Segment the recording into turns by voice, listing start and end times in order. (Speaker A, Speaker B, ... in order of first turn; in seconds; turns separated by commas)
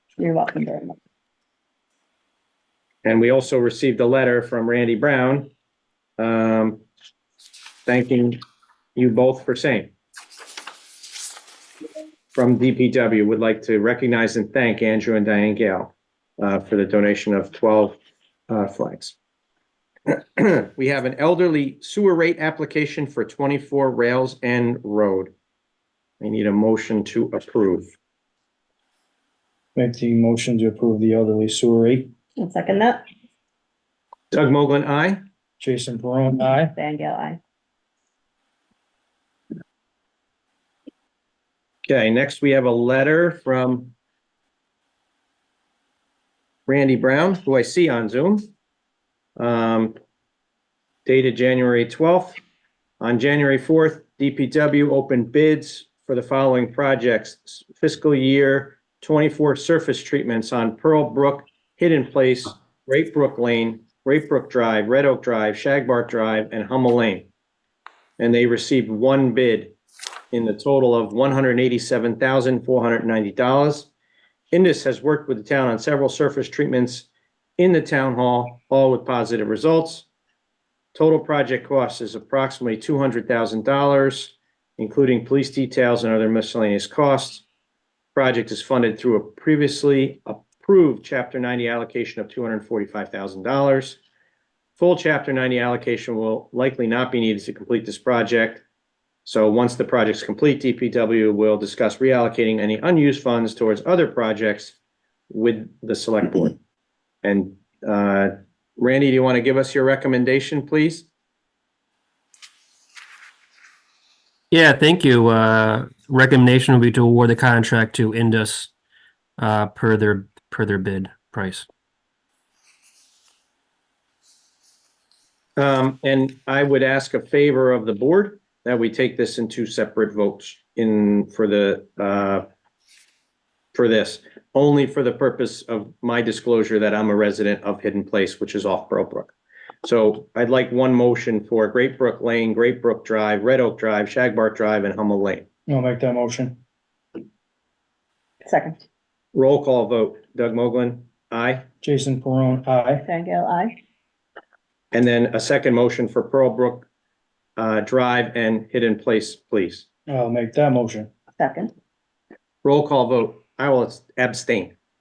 Speaker A: 0.2-1.0, Speaker B: 3.0-5.5, Speaker B: 6.2-6.8, Speaker B: 7.8-8.4, Speaker B: 8.9-9.9, Speaker B: 12.3-18.0, Speaker B: 18.5-19.1, Speaker B: 20.1-25.3, Speaker B: 26.2-27.9, Speaker C: 29.8-32.1, Speaker A: 32.4-33.0, Speaker B: 34.3-35.2, Speaker C: 35.6-36.7, Speaker A: 36.6-37.4, Speaker B: 41.9-43.9, Speaker B: 46.7-48.5, Speaker B: 49.4-50.0, Speaker B: 51.0-52.4, Speaker B: 53.0-67.3, Speaker B: 68.2-69.7, Speaker B: 70.3-73.9, Speaker B: 74.5-80.1, Speaker B: 80.9-87.4, Speaker B: 88.1-94.0, Speaker B: 94.8-98.6, Speaker B: 99.2-104.8, Speaker B: 105.3-106.6, Speaker B: 107.2-111.1, Speaker D: 114.5-118.7, Speaker D: 119.4-121.7, Speaker B: 125.6-132.4, Speaker B: 133.7-145.4, Speaker C: 145.7-146.6, Speaker A: 148.4-148.8, Speaker B: 149.3-151.6, Speaker C: 151.8-153.1, Speaker A: 153.0-153.8, Speaker B: 154.9-156.9, Speaker B: 157.6-159.8, Speaker C: 160.1-161.1, Speaker A: 161.4-161.7, Speaker B: 162.6-164.7